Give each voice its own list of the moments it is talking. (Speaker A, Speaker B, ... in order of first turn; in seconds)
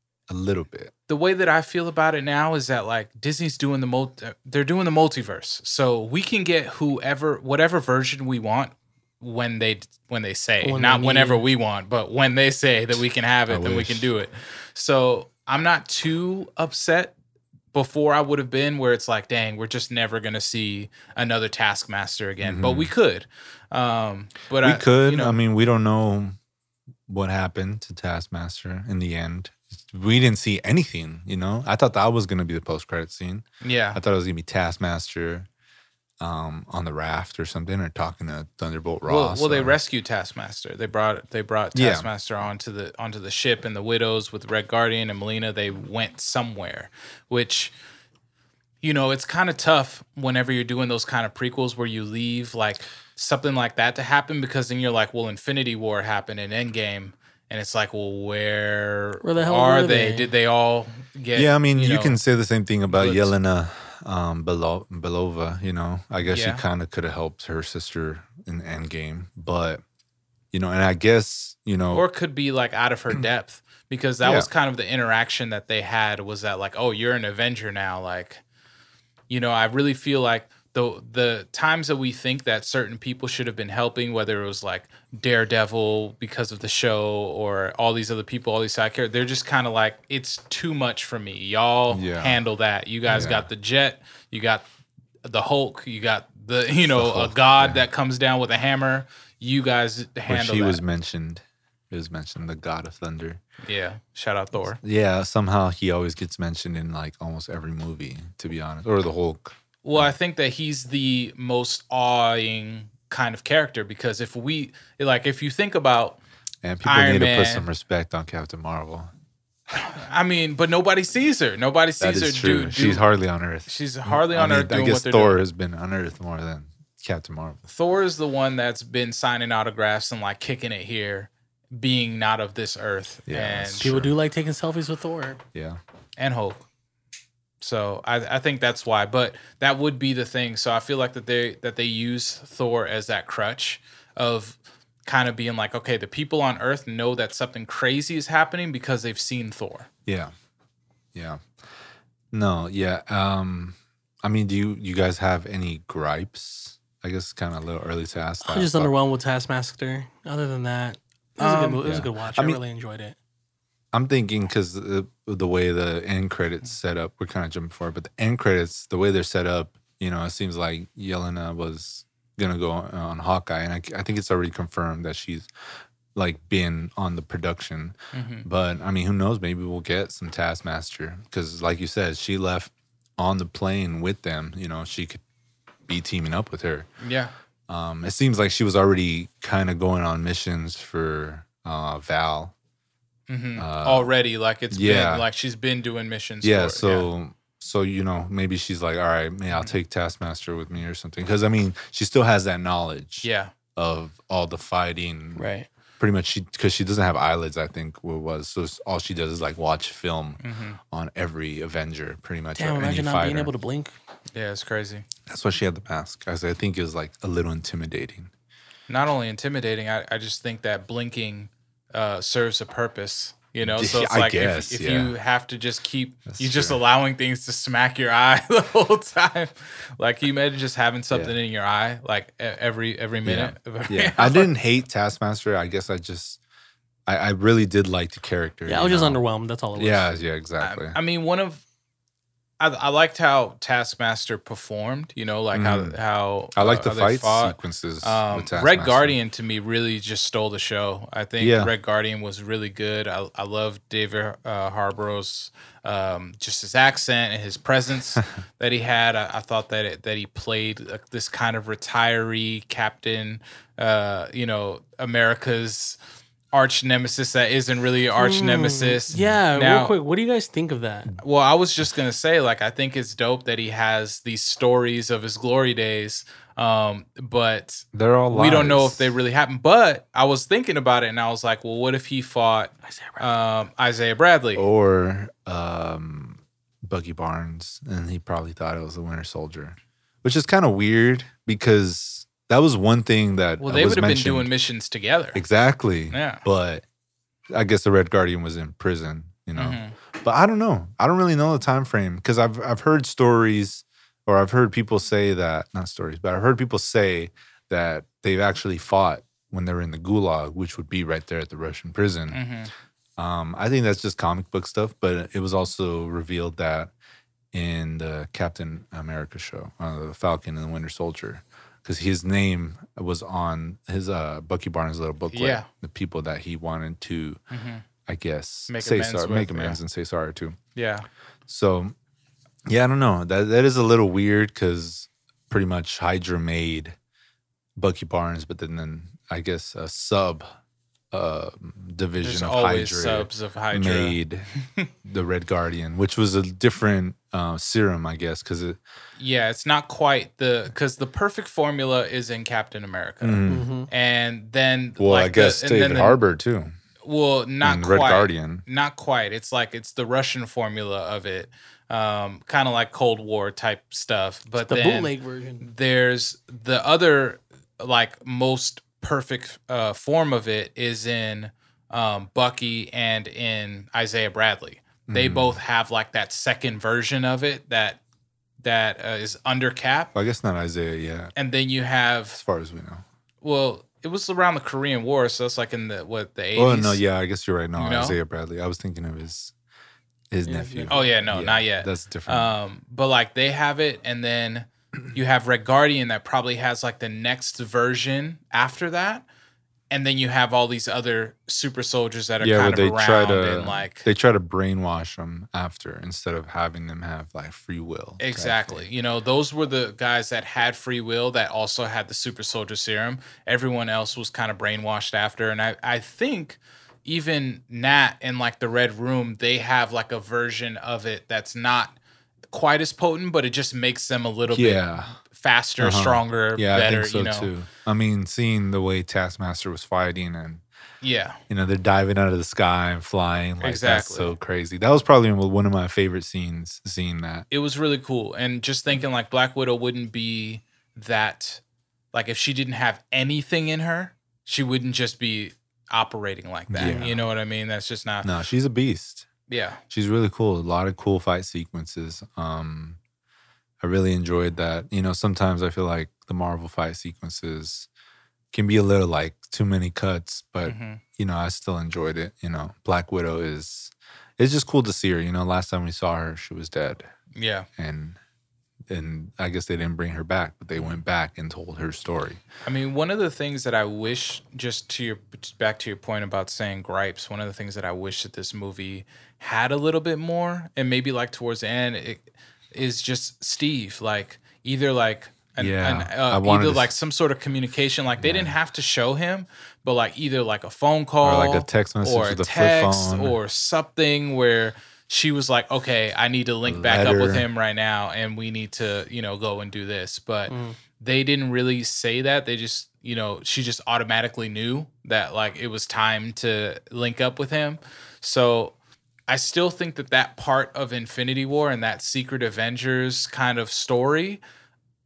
Speaker A: 0.3-0.9, 13.5-14.1, 22.4-22.9, 24.6-26.4, 27.1-35.5, 36.2-39.8, 41.7-42.1, 61.4-69.8, 70.5-72.0, 74.2-74.5, 91.9-92.4, 93.1-93.5, 96.9-97.8, 100.3-103.4, 104.8-110.1, 116.6-119.1, 122.0-127.6, 133.3-134.2, 135.5-135.8, 150.1-150.3, 151.1-151.4, 152.3-158.9, 161.8-162.6, 163.9-175.5, 176.2-185.2, 185.9-186.9, 187.7-192.5, 193.6-194.1, 194.7-195.3, 196.4-205.4, 206.0-210.4, 210.9-213.5, 215.3-218.3, 223.6-225.1, 226.3-226.8, 233.2-236.4, 237.1-239.2, 239.8-241.0, 245.5-246.0, 246.6-249.2, 251.4-251.7, 269.1-269.4, 277.9-279.2, 284.6-294.5, 295.3-296.9, 297.5-312.4, 313.2-316.9, 317.5-327.4, 328.1-330.6, 331.5-331.9, 332.7-337.0, 337.8-340.5, 341.1-344.5, 345.0-348.8, 353.2-353.7, 355.0-356.7, 357.6-358.6, 375.1-375.6, 380.1-381.3, 382.3-383.0, 386.6-389.5, 390.3-392.6, 402.4-408.9, 424.5-425.2, 425.8-430.6, 431.5-437.5, 446.7-447.2, 448.2-449.3, 449.9-453.0, 453.8-457.9, 458.5-467.1, 467.8-468.2, 468.9-472.4, 485.6-486.9, 488.2-488.6, 491.2-493.4, 496.6-497.5
Speaker B: 1.1-17.1, 17.7-25.4, 33.6-34.0, 39.1-47.7, 48.8-62.2, 62.9-63.4, 66.2-66.6, 71.9-78.4, 79.3-94.7, 95.2-100.8, 103.6-104.8, 109.8-116.2, 116.8-117.7, 119.7-123.0, 123.7-125.4, 127.7-133.9, 136.2-136.7, 137.6-149.9, 161.4-161.8, 178.1-178.5, 187.0-187.3, 193.3-197.1, 203.2-203.5, 210.4-210.8, 214.3-215.1, 218.9-234.5, 240.6-241.6, 242.6-266.0, 266.5-269.9, 271.2-284.6, 293.6-295.4, 296.1-296.4, 299.6-300.0, 312.3-312.7, 325.3-325.7, 327.5-327.9, 328.7-329.8, 330.8-331.1, 342.2-344.2, 349.2-356.2, 357.0-378.0, 378.6-380.1, 381.4-382.4, 383.4-387.0, 387.8-388.2, 390.9-399.3, 399.9-404.1, 408.2-422.0, 422.5-427.5, 431.0-431.4, 433.6-434.3, 437.5-441.6, 442.1-448.3, 449.5-449.8, 460.6-461.0, 467.4-467.7, 472.6-508.8, 509.3-514.4
Speaker C: 10.6-11.4, 59.2-60.3, 133.8-135.4, 158.4-163.2, 205.4-205.7, 212.6-213.9, 238.7-240.2, 268.2-271.1, 282.9-283.3, 353.5-353.9, 364.6-365.7, 390.4-391.2, 446.8-447.1, 500.5-500.8